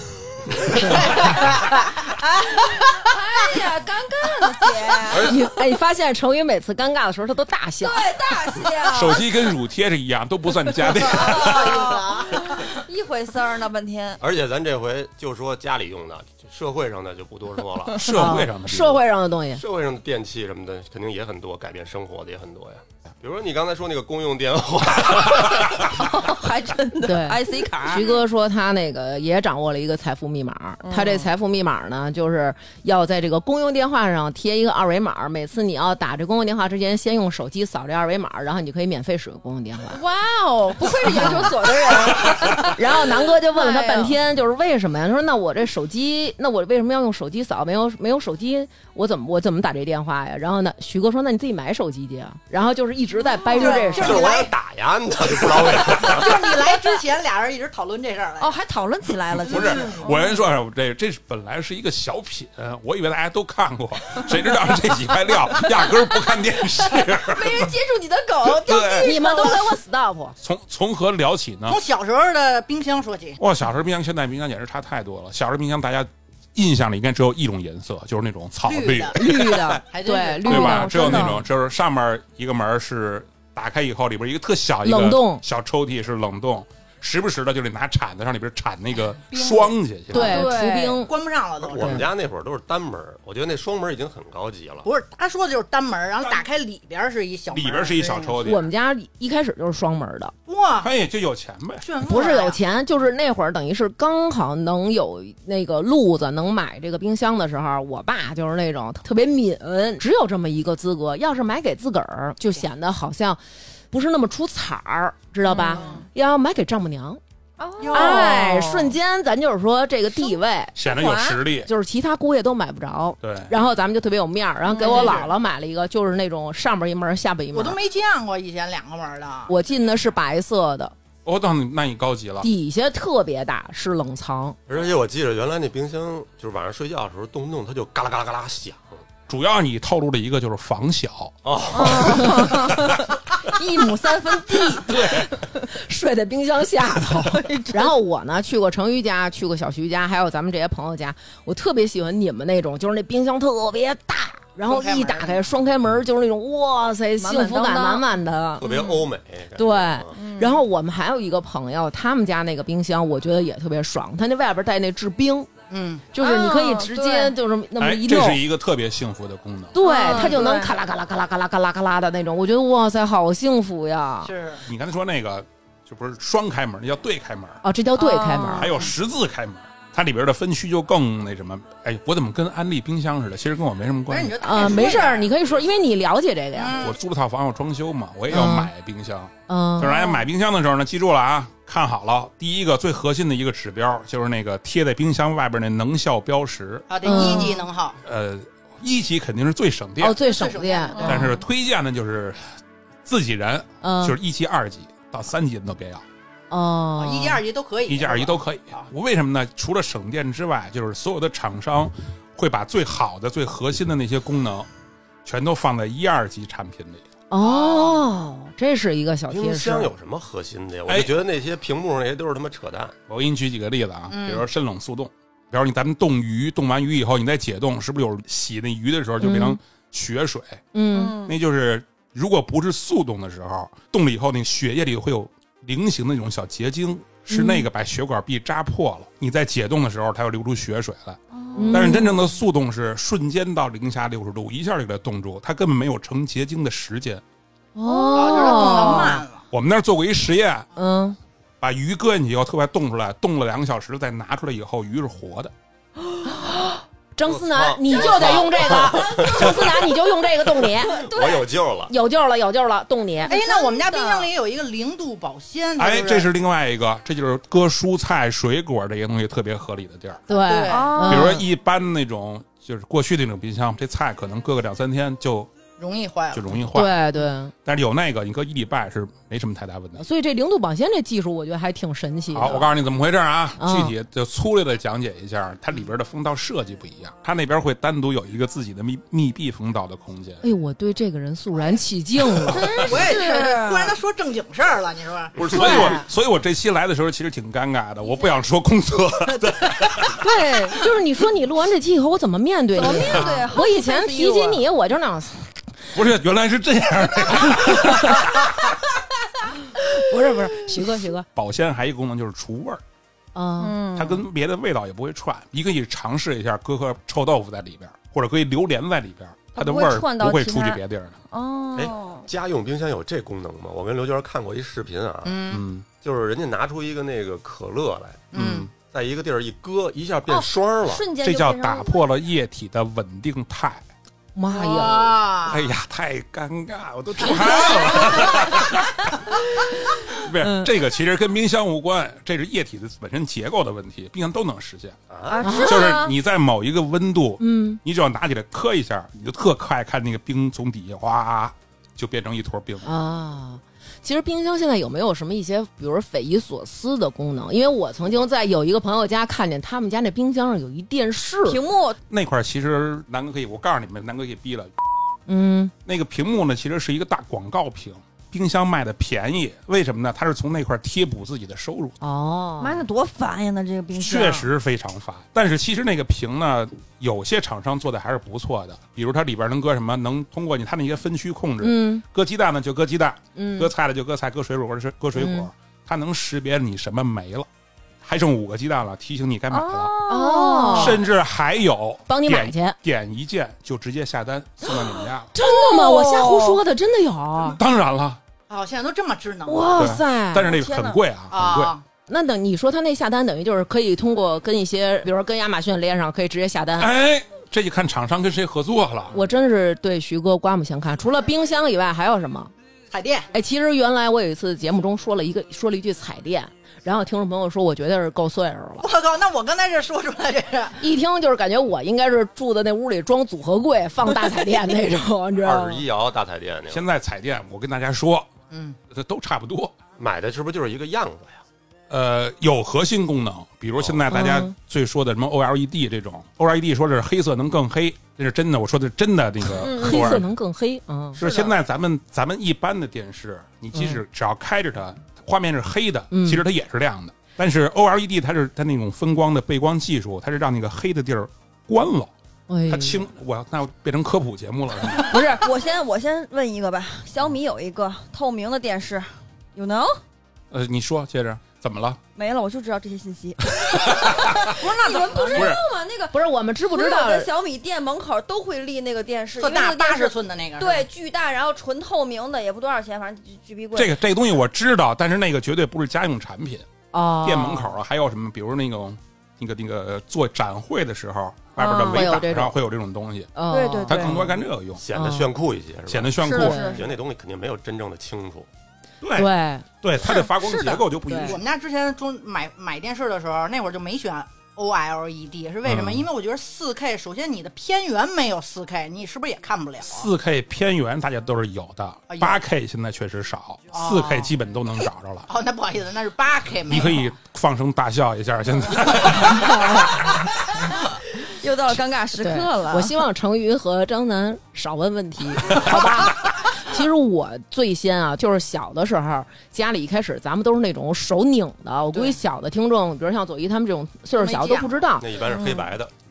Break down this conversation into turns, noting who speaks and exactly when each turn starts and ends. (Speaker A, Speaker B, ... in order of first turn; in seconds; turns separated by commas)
Speaker A: 0.5-5.3, Speaker B: 0.7-1.0, Speaker C: 0.8-3.1, Speaker D: 5.1-5.4, Speaker B: 5.2-8.0, Speaker A: 7.8-9.5, Speaker E: 8.9-11.8, Speaker A: 10.8-14.2, Speaker C: 11.2-12.4, Speaker D: 14.2-18.1, Speaker E: 17.9-19.0, Speaker B: 18.0-19.6, Speaker D: 19.5-25.9, Speaker A: 25.2-28.2, Speaker B: 27.0-40.0, Speaker A: 30.8-31.3, Speaker A: 39.9-44.2, Speaker B: 41.1-41.5, Speaker B: 42.5-54.3, Speaker C: 53.5-54.5, Speaker D: 54.0-56.7, Speaker C: 56.0-58.5, Speaker A: 58.4-60.3, Speaker E: 59.4-67.7, Speaker C: 59.5-60.0, Speaker A: 65.6-66.1, Speaker A: 66.9-69.8, Speaker E: 68.5-69.2, Speaker B: 69.0-70.3, Speaker E: 70.4-71.8, Speaker C: 71.7-73.4, Speaker E: 73.4-79.2, Speaker C: 78.7-80.7, Speaker B: 79.1-81.4, Speaker E: 80.4-90.5, Speaker A: 80.5-81.3, Speaker B: 84.8-85.4, Speaker C: 89.3-89.7, Speaker B: 90.1-91.1, Speaker A: 90.1-91.0, Speaker C: 91.0-92.1, Speaker D: 91.6-94.9, Speaker B: 91.8-92.0, Speaker C: 94.8-98.5, Speaker E: 97.5-98.7, Speaker B: 98.5-100.3, Speaker C: 100.5-100.9, Speaker E: 100.8-101.9, Speaker C: 101.8-102.6, Speaker B: 102.0-117.2, Speaker A: 115.4-116.0, Speaker A: 117.6-118.9, Speaker C: 117.8-118.5, Speaker B: 117.9-120.8, Speaker E: 120.8-121.7, Speaker A: 120.9-121.4, Speaker B: 121.6-127.8, Speaker E: 123.2-123.5, Speaker A: 124.7-125.3, Speaker C: 124.8-125.3, Speaker C: 127.5-129.5, Speaker B: 129.5-130.9, Speaker E: 131.2-132.5, Speaker B: 132.4-134.6, Speaker D: 134.7-139.0, Speaker E: 139.3-141.3, Speaker D: 141.4-142.6, Speaker A: 141.7-145.6, Speaker B: 141.8-143.0, Speaker E: 144.8-145.3, Speaker B: 145.7-158.7, Speaker A: 147.0-147.9, Speaker C: 154.7-155.4, Speaker A: 157.2-158.1, Speaker D: 158.6-160.2, Speaker A: 158.6-159.1, Speaker B: 159.6-165.5, Speaker A: 160.1-160.6, Speaker C: 165.7-166.1, Speaker B: 166.1-168.4, Speaker A: 166.2-167.3, Speaker E: 167.8-170.3, Speaker B: 169.7-174.3, Speaker A: 169.8-170.7, Speaker C: 174.2-174.7, Speaker E: 174.7-177.6, Speaker B: 177.6-178.7, Speaker A: 178.0-178.8, Speaker E: 178.5-184.7, Speaker C: 184.1-185.3, Speaker B: 184.4-186.9, Speaker C: 186.5-186.9, Speaker E: 186.8-196.9, Speaker B: 188.3-188.7, Speaker B: 189.5-190.2, Speaker C: 196.9-198.0, Speaker B: 197.0-197.6, Speaker E: 198.0-200.2, Speaker B: 200.0-201.4, Speaker C: 200.2-201.1, Speaker E: 201.0-202.5, Speaker E: 203.1-206.0, Speaker B: 203.8-204.2, Speaker B: 206.5-207.4, Speaker C: 207.0-208.9, Speaker E: 207.9-214.7, Speaker E: 215.2-217.0, Speaker B: 217.3-219.9, Speaker C: 217.4-218.1, Speaker D: 219.3-223.0, Speaker E: 220.9-221.2, Speaker E: 223.1-230.6, Speaker C: 224.1-224.4, Speaker B: 229.2-229.6, Speaker B: 230.7-231.2, Speaker A: 230.9-231.3, Speaker E: 231.2-247.2, Speaker B: 237.3-237.7, Speaker A: 241.4-242.0, Speaker B: 241.6-242.1, Speaker B: 247.8-249.2, Speaker A: 247.8-249.2, Speaker C: 248.0-249.4, Speaker E: 249.5-250.7, Speaker B: 250.7-251.2, Speaker E: 251.6-255.5, Speaker B: 256.2-261.0, Speaker D: 257.2-259.9, Speaker D: 260.5-261.9, Speaker A: 260.9-261.5, Speaker B: 261.9-263.3, Speaker C: 263.3-266.3, Speaker A: 263.3-264.3, Speaker E: 265.8-270.2, Speaker B: 270.3-271.4, Speaker C: 270.3-270.9, Speaker A: 270.7-271.4, Speaker E: 271.1-275.5, Speaker C: 275.8-276.6, Speaker E: 276.3-276.9, Speaker B: 276.7-277.5, Speaker E: 277.6-280.0, Speaker B: 280.0-282.7, Speaker E: 282.3-290.4, Speaker B: 283.6-283.9, Speaker B: 290.4-292.6, Speaker A: 292.5-294.0, Speaker C: 292.8-295.8, Speaker E: 295.4-300.1, Speaker B: 295.5-296.0, Speaker B: 300.2-305.5, Speaker A: 302.7-304.6, Speaker E: 303.1-303.5, Speaker E: 305.9-308.4, Speaker B: 307.7-308.2, Speaker B: 309.9-311.2, Speaker E: 311.3-312.8, Speaker B: 313.3-313.8, Speaker A: 313.6-314.2, Speaker E: 313.9-321.1, Speaker A: 319.5-322.3, Speaker D: 321.8-331.0, Speaker C: 325.2-325.6, Speaker E: 325.5-325.9, Speaker C: 328.3-328.7, Speaker E: 328.3-328.7, Speaker A: 330.3-332.1, Speaker E: 331.2-333.8, Speaker B: 334.3-335.2, Speaker C: 334.5-335.7, Speaker E: 335.4-339.0, Speaker A: 337.8-338.2, Speaker E: 340.1-345.0, Speaker B: 340.4-340.7, Speaker D: 345.1-345.6, Speaker A: 345.3-346.1, Speaker B: 345.4-345.8, Speaker E: 345.6-352.9, Speaker B: 347.4-347.8, Speaker B: 352.8-361.6, Speaker A: 361.4-362.0, Speaker E: 362.1-364.7, Speaker B: 365.3-365.7, Speaker E: 365.9-371.9, Speaker B: 372.0-372.8, Speaker A: 372.6-374.5, Speaker E: 373.9-387.5, Speaker B: 381.6-382.0, Speaker B: 383.4-383.7, Speaker B: 385.1-385.5, Speaker E: 388.0-389.9, Speaker A: 389.5-391.0, Speaker B: 390.1-391.0, Speaker E: 390.7-395.3, Speaker B: 392.1-392.8, Speaker B: 395.3-397.6, Speaker A: 395.3-396.6, Speaker E: 397.4-398.2, Speaker C: 398.5-399.9, Speaker B: 399.4-400.5, Speaker E: 399.8-401.7, Speaker A: 400.4-401.0, Speaker C: 401.3-401.8, Speaker B: 402.1-406.9, Speaker E: 406.8-409.2, Speaker B: 409.1-412.5, Speaker C: 412.9-413.3, Speaker B: 413.3-418.9, Speaker C: 418.8-420.8, Speaker B: 420.8-425.8, Speaker D: 425.4-426.9, Speaker E: 426.7-428.3, Speaker C: 428.5-428.8, Speaker E: 428.9-429.7, Speaker D: 430.0-431.4, Speaker E: 431.9-440.3, Speaker D: 433.8-434.1, Speaker B: 434.1-434.5, Speaker A: 439.6-440.2, Speaker B: 439.6-441.2, Speaker E: 441.2-452.1, Speaker B: 443.7-444.0, Speaker B: 446.1-446.4, Speaker B: 452.5-453.0, Speaker E: 452.7-455.2, Speaker A: 455.1-460.0, Speaker E: 460.5-462.0, Speaker A: 462.1-474.0, Speaker E: 463.6-464.5, Speaker C: 464.5-465.6, Speaker E: 465.3-465.6, Speaker B: 466.1-467.3, Speaker C: 469.4-470.9, Speaker E: 473.7-476.7, Speaker B: 476.9-477.7, Speaker E: 477.2-483.3, Speaker A: 481.6-482.1, Speaker B: 481.9-482.5, Speaker B: 483.3-484.4, Speaker A: 483.5-484.1, Speaker E: 483.8-484.8, Speaker D: 484.8-488.5, Speaker B: 484.9-485.3, Speaker E: 485.9-486.6, Speaker A: 486.2-486.9, Speaker B: 486.4-486.8, Speaker E: 489.0-491.4, Speaker B: 489.2-489.6, Speaker A: 490.0-490.8, Speaker B: 491.1-491.4, Speaker C: 491.2-500.1, Speaker E: 495.6-496.1, Speaker E: 499.8-505.3, Speaker C: 502.1-502.4, Speaker C: 503.7-504.3, Speaker C: 505.3-507.0, Speaker E: 506.7-509.6, Speaker B: 509.3-509.9, Speaker A: 511.3-512.9, Speaker B: 512.2-525.1, Speaker C: 521.9-522.2, Speaker C: 524.1-524.9, Speaker D: 525.0-525.9, Speaker A: 525.2-525.7